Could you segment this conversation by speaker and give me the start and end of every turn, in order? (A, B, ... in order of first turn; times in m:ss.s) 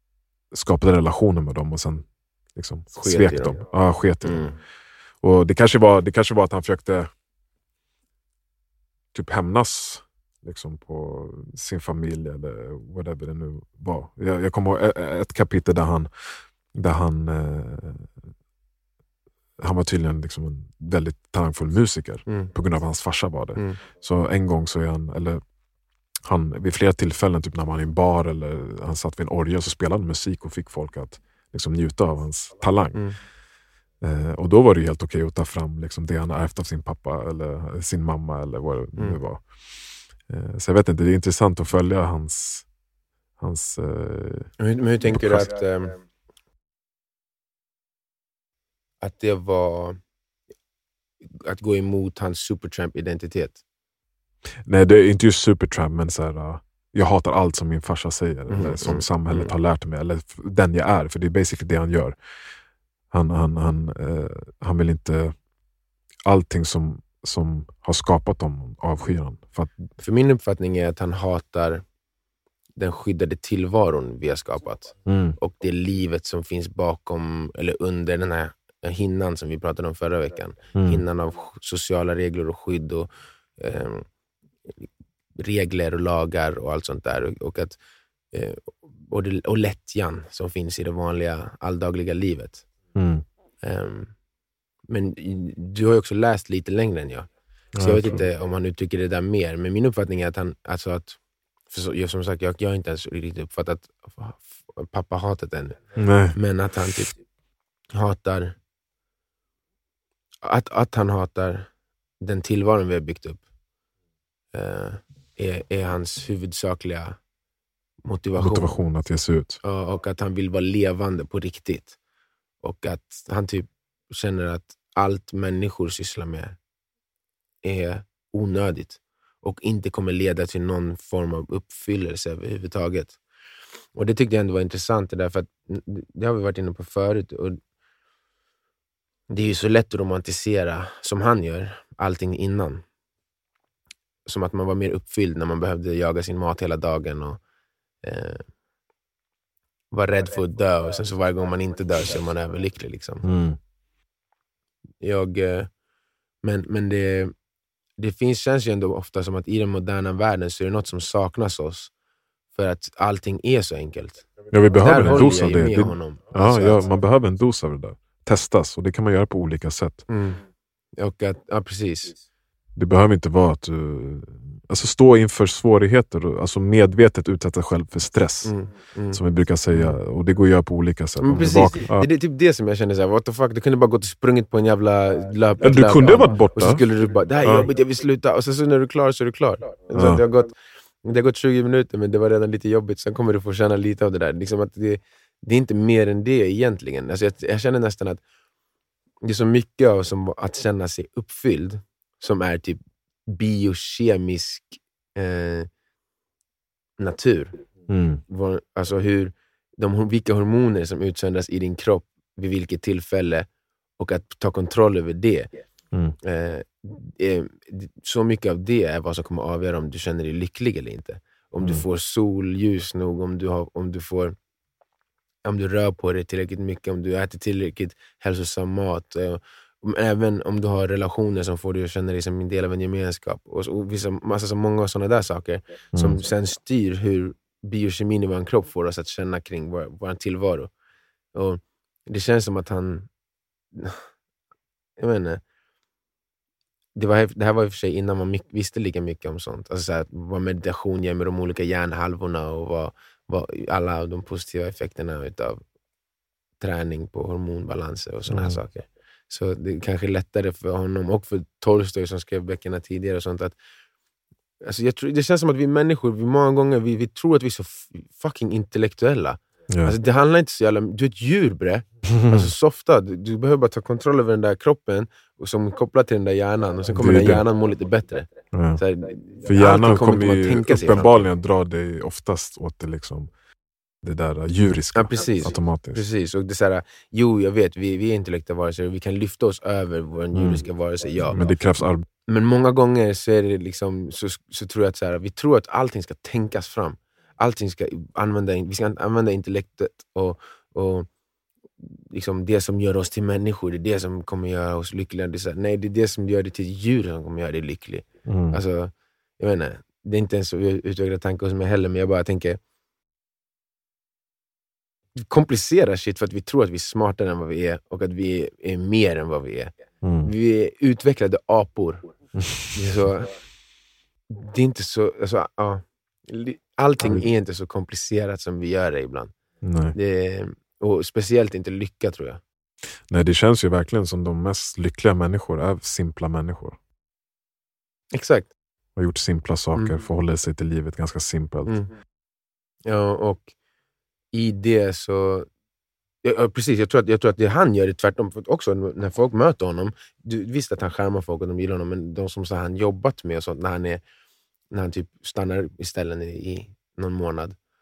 0:00.5-0:04.5 A
0:03.0-0:03.6 B
0:04.2-0:04.5 B
0:05.2-0:07.1 A
0:09.1-0:18.1 A
0:19.6-0:25.4 A
0:22.2-0:22.5 B
0:26.2-0:33.0 A
0:34.0-0:39.4 A
0:40.3-0:42.7 A
0:43.4-0:44.5 A
0:44.6-0:46.0 B
0:45.1-0:45.5 A
0:49.0-0:50.0 B
0:51.3-0:53.6 B
0:54.7-1:02.1 A
0:58.5-0:59.5 B
1:03.1-1:05.4 A
1:06.2-1:09.8 A
1:10.0-1:11.8 B
1:12.8-1:24.1 B
1:15.0-1:15.4 A
1:20.7-1:21.0 A
1:24.7-1:27.8 B
1:28.3-1:32.6 B
1:32.9-1:33.2 A
1:33.6-1:34.1 B
1:34.9-1:37.3 B
1:37.7-1:38.2 A
1:37.8-1:41.2 B
1:41.7-1:45.8 B
1:46.0-1:46.4 A
1:46.3-1:47.1 B
1:47.9-1:48.6 B
1:50.4-1:51.7 B
1:52.2-1:53.4 B
1:54.5-1:57.2 B
1:58.0-1:58.7 B
1:58.4-1:59.6 A
1:59.6-2:02.0 B
2:02.6-2:06.6 B
2:07.6-2:13.2 B
2:13.9-2:17.6 B
2:19.3-2:22.8 B
2:24.2-2:27.4 B
2:28.0-2:28.5 B
2:29.9-2:33.2 B
2:33.2-2:33.6 A
2:35.0-2:35.7 B
2:36.4-2:37.3 B
2:38.0-2:41.9 B
2:42.5-2:46.8 B
2:44.5-2:50.0 A
2:50.1-2:50.4 B
2:51.0-2:52.2 B
2:52.8-2:58.5 A
2:58.4-3:00.0 B
2:59.1-3:02.1 A
3:01.2-3:18.2 B
3:05.6-3:06.8 A
3:09.9-3:10.2 A
3:19.2-3:25.7 B
3:27.0-3:27.6 B
3:27.9-3:28.2 A
3:28.3-3:33.5 B
3:34.0-3:35.5 B
3:36.2-3:44.4 B
3:45.4-4:00.7 B
3:55.9-3:56.2 A
4:01.3-4:03.1 B
4:03.7-4:04.0 B
4:05.0-4:05.4 B
4:06.9-4:15.6 B
4:16.6-4:23.6 B
4:18.3-4:18.6 A
4:24.6-4:41.3 B
4:29.7-4:29.9 A
4:32.1-4:32.5 A
4:36.9-4:37.4 A
4:38.5-4:38.8 A
4:39.4-4:43.3 A
4:44.0-4:46.0 A
4:44.9-4:51.4 B
4:50.3-4:50.6 A
4:51.3-4:52.0 A
4:52.2-5:01.1 B
5:01.8-5:12.6 B
5:08.2-5:08.6 A
5:15.1-5:22.1 B
5:20.0-5:20.3 A
5:22.4-5:22.7 A
5:22.7-5:23.3 B
5:24.3-5:29.3 B
5:29.6-5:30.0 A
5:29.9-5:32.4 B
5:33.1-5:36.8 A
5:38.1-5:38.5 B
5:39.0-5:41.8 A
5:42.8-5:43.5 B
5:44.3-5:45.5 B
5:46.2-5:54.0 B
5:54.7-5:57.6 B